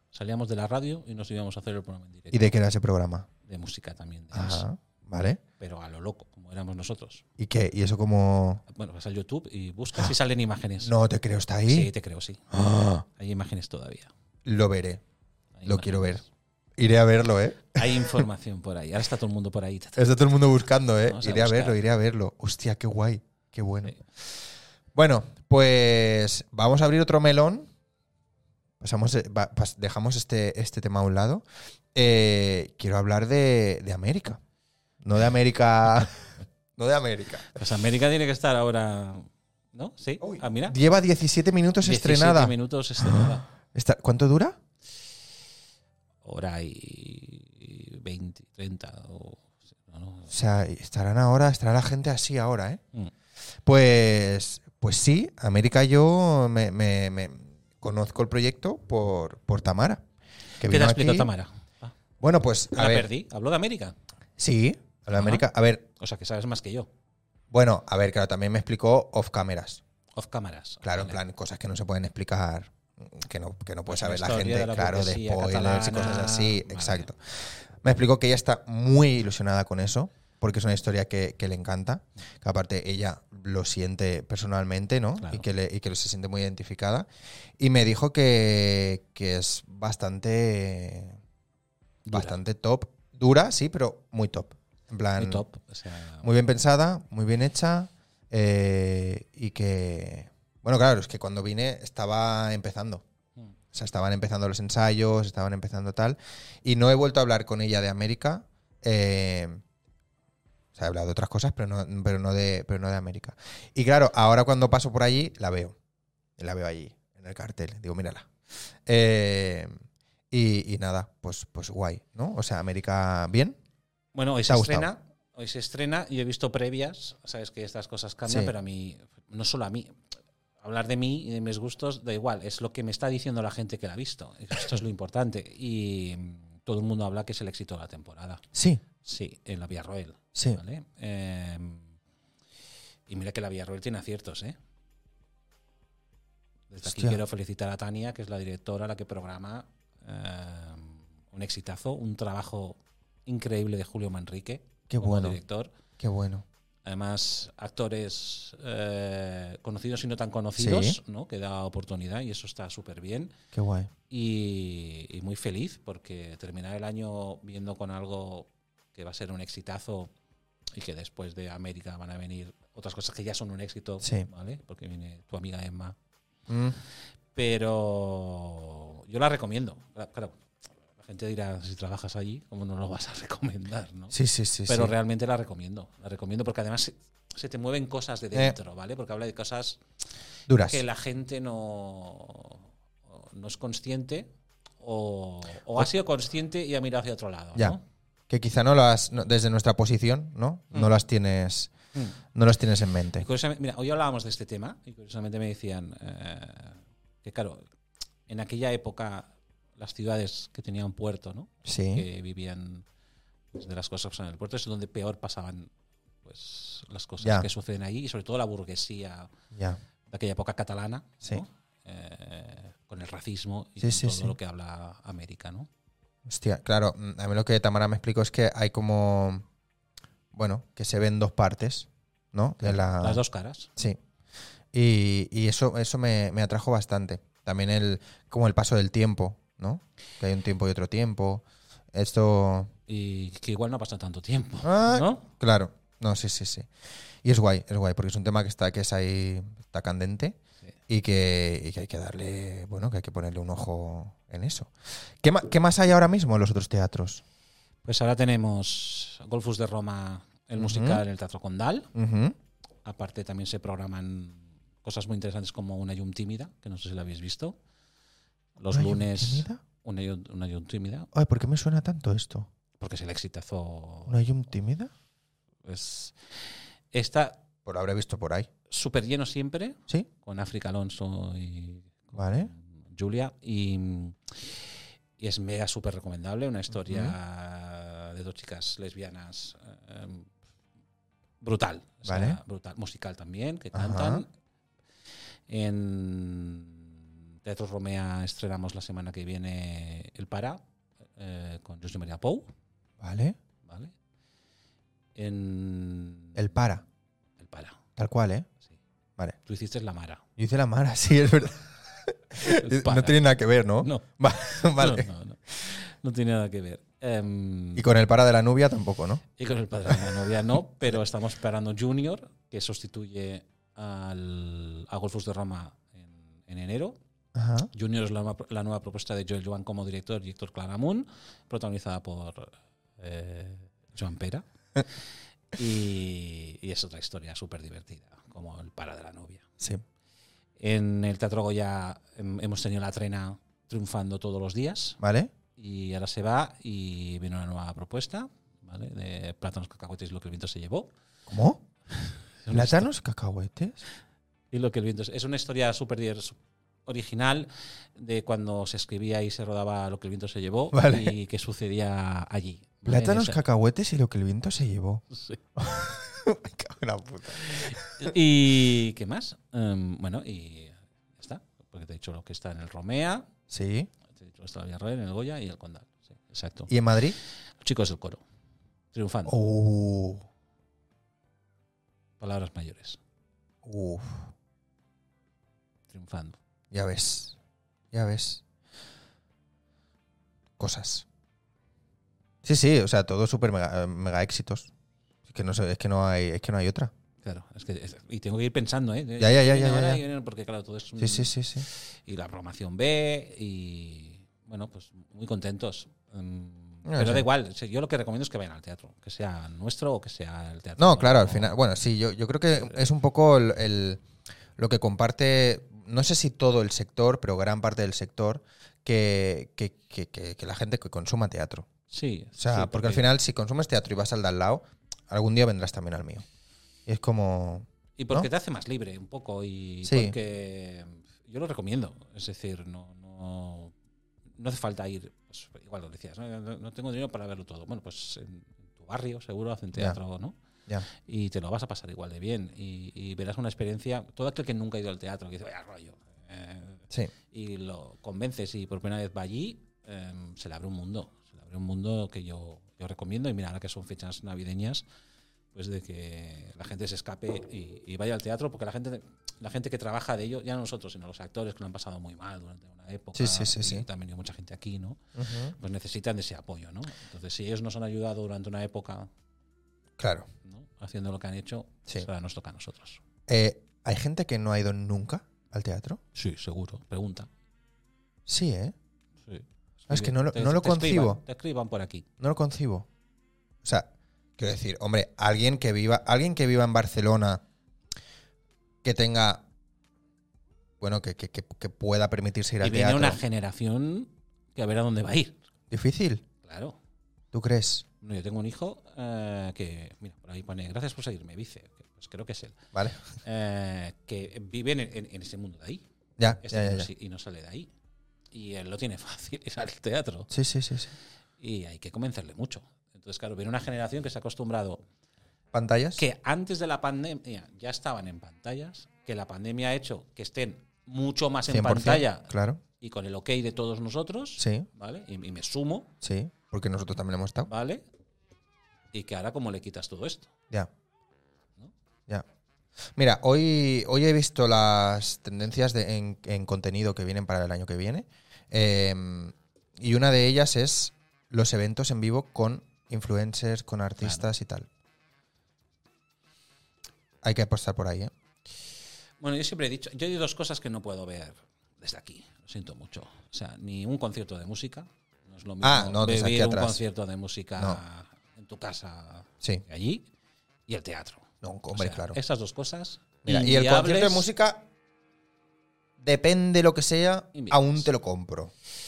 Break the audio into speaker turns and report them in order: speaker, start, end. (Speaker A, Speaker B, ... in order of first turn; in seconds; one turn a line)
Speaker A: 0.1-2.5
Speaker B: 2.3-3.3
Speaker A: 3.4-4.6
Speaker B: 4.3-5.4
Speaker A: 5.6-7.2
Speaker B: 7.4-8.6
Speaker A: 8.7-10.9
Speaker B: 10.8-11.9
Speaker A: 11.7-12.5
Speaker B: 12.5-13.0
Speaker A: 13.1-14.1
Speaker B: 14.4-15.0
Speaker A: 15.6-16.2
Speaker B: 15.6-16.2
Speaker B: 16.8-18.2
Speaker A: 17.7-20.3
Speaker B: 20.0-24.3
Speaker A: 21.0-21.8
Speaker B: 24.9-27.7
Speaker B: 28.8-34.4
Speaker B: 35.0-37.5
Speaker A: 37.5-40.8
Speaker B: 40.2-44.6
Speaker A: 41.8-43.5
Speaker A: 46.2-50.3
Speaker B: 50.3-52.8
Speaker B: 53.6-60.0
Speaker B: 60.6-61.3
Speaker A: 60.6-61.9
Speaker B: 62.2-63.1
Speaker A: 62.7-63.9
Speaker B: 64.4-65.8
Speaker A: 65.1-65.4
Speaker A: 66.0-66.9
Speaker B: 67.5-69.8
Speaker A: 70.2-71.2
Speaker B: 70.8-87.1
Speaker A: 73.9-77.1
Speaker A: 85.2-85.4
Speaker B: 87.6-91.2
Speaker A: 92.0-92.4
Speaker B: 92.1-95.4
Speaker A: 95.2-96.2
Speaker B: 96.2-103.0
Speaker B: 103.7-109.6
Speaker B: 110.7-115.7
Speaker B: 116.4-118.3
Speaker B: 118.8-119.7
Speaker B: 120.3-123.6
Speaker A: 124.1-130.0
Speaker B: 124.5-124.9
Speaker B: 128.3-128.5
Speaker A: 130.6-138.4
Speaker B: 138.5-138.8
Speaker A: 139.0-141.9
Speaker B: 140.3-140.6
Speaker A: 143.1-144.6
Speaker A: 146.7-155.7
Speaker B: 146.8-147.2
Speaker B: 154.9-155.4
Speaker B: 156.0-156.4
Speaker A: 156.8-163.3
Speaker B: 160.6-161.0
Speaker B: 163.5-163.9
Speaker A: 164.1-170.1
Speaker A: 170.7-175.9
Speaker B: 174.0-174.3
Speaker B: 176.5-176.8
Speaker A: 177.3-180.4
Speaker A: 181.0-184.1
Speaker B: 184.1-184.9
Speaker A: 184.7-189.8
Speaker B: 190.5-190.8
Speaker A: 190.6-194.3
Speaker A: 194.8-197.8
Speaker B: 198.3-201.7
Speaker B: 202.3-203.2
Speaker A: 203.2-207.6
Speaker A: 208.3-212.8
Speaker B: 211.6-212.0
Speaker A: 213.5-215.7
Speaker A: 216.2-219.3
Speaker B: 217.2-217.5
Speaker B: 219.5-219.8
Speaker A: 220.1-225.7
Speaker B: 223.8-224.3
Speaker B: 226.2-229.4
Speaker B: 230.3-233.2
Speaker A: 232.6-233.7
Speaker B: 234.7-242.7
Speaker A: 242.9-245.2
Speaker B: 244.6-246.7
Speaker B: 247.2-250.4
Speaker B: 250.9-257.2
Speaker A: 257.8-261.9
Speaker B: 260.6-261.0
Speaker B: 261.9-262.3
Speaker A: 262.8-267.6
Speaker A: 268.6-271.1
Speaker B: 268.7-269.6
Speaker B: 271.1-272.5
Speaker A: 272.8-274.2
Speaker B: 274.1-274.9
Speaker A: 275.6-276.2
Speaker A: 276.9-277.4
Speaker B: 277.6-278.5
Speaker A: 278.7-284.7
Speaker B: 282.1-282.5
Speaker A: 285.2-290.3
Speaker B: 286.8-287.1
Speaker A: 291.4-294.3
Speaker B: 292.1-292.4
Speaker B: 293.7-294.2
Speaker A: 295.5-300.6
Speaker A: 301.2-302.5
Speaker B: 303.0-303.4
Speaker A: 303.6-303.9
Speaker A: 305.1-306.5
Speaker B: 306.4-306.8
Speaker A: 307.4-307.8
Speaker B: 308.0-308.5
Speaker A: 309.4-310.2
Speaker B: 310.4-315.1
Speaker A: 312.4-313.2
Speaker A: 313.8-317.9
Speaker B: 317.8-319.2
Speaker A: 319.4-326.9
Speaker B: 319.9-320.1
Speaker B: 327.3-327.7
Speaker A: 327.7-334.9
Speaker A: 335.5-339.4
Speaker A: 340.6-345.0
Speaker B: 345.0-345.3
Speaker A: 345.6-350.9
Speaker B: 351.3-351.6
Speaker A: 351.9-352.9
Speaker B: 352.5-353.8
Speaker A: 354.5-363.4
Speaker B: 360.7-361.1
Speaker B: 362.9-365.0
Speaker A: 365.1-365.4
Speaker B: 365.6-368.1
Speaker A: 367.4-373.3
Speaker B: 373.5-373.9
Speaker A: 374.1-376.7
Speaker B: 376.7-377.1
Speaker A: 377.6-378.2
Speaker A: 378.9-379.4
Speaker B: 379.2-380.2
Speaker A: 382.2-383.0
Speaker B: 383.6-384.2
Speaker A: 385.9-386.4
Speaker B: 386.7-387.4
Speaker B: 387.9-388.4
Speaker B: 390.6-391.1
Speaker B: 392.4-394.7
Speaker B: 395.3-396.9
Speaker A: 397.2-411.5
Speaker B: 399.2-400.0
Speaker B: 401.0-401.7
Speaker B: 406.9-407.2
Speaker B: 410.8-414.0
Speaker B: 414.6-421.7
Speaker A: 421.9-423.1
Speaker B: 422.4-426.2
Speaker B: 426.9-428.3
Speaker A: 428.0-433.7
Speaker B: 429.8-430.1
Speaker A: 434.4-440.3
Speaker A: 440.9-454.8
Speaker A: 455.5-465.0
Speaker B: 463.1-463.9
Speaker B: 465.1-465.5
Speaker A: 465.5-469.1
Speaker B: 470.0-470.3
Speaker A: 470.4-473.0
Speaker B: 473.3-476.0
Speaker A: 476.1-477.3
Speaker B: 478.3-478.7
Speaker A: 479.3-482.1
Speaker B: 479.9-481.2
Speaker B: 482.2-482.9
Speaker B: 483.6-487.4
Speaker B: 488.8-489.4
Speaker B: 490.8-493.2
Speaker A: 492.6-495.4
Speaker B: 495.7-496.2
Speaker A: 496.4-496.8
Speaker B: 497.3-497.9
Speaker A: 498.0-502.6
Speaker B: 502.7-503.0
Speaker A: 503.2-507.7
Speaker B: 506.2-506.9
Speaker A: 508.3-510.3
Speaker B: 510.3-510.9
Speaker A: 511.4-514.8
Speaker B: 515.5-516.0
Speaker A: 516.0-525.9
Speaker B: 521.5-522.6
Speaker B: 524.4-524.7
Speaker B: 526.0-527.5
Speaker A: 527.5-527.8
Speaker A: 528.9-530.3
Speaker B: 533.0-544.7
Speaker A: 544.0-544.2
Speaker B: 547.2-548.1
Speaker A: 549.2-560.1
Speaker B: 555.6-556.8
Speaker A: 560.7-564.3
Speaker B: 561.4-562.2
Speaker B: 563.2-564.7
Speaker B: 566.0-568.5
Speaker A: 567.3-567.9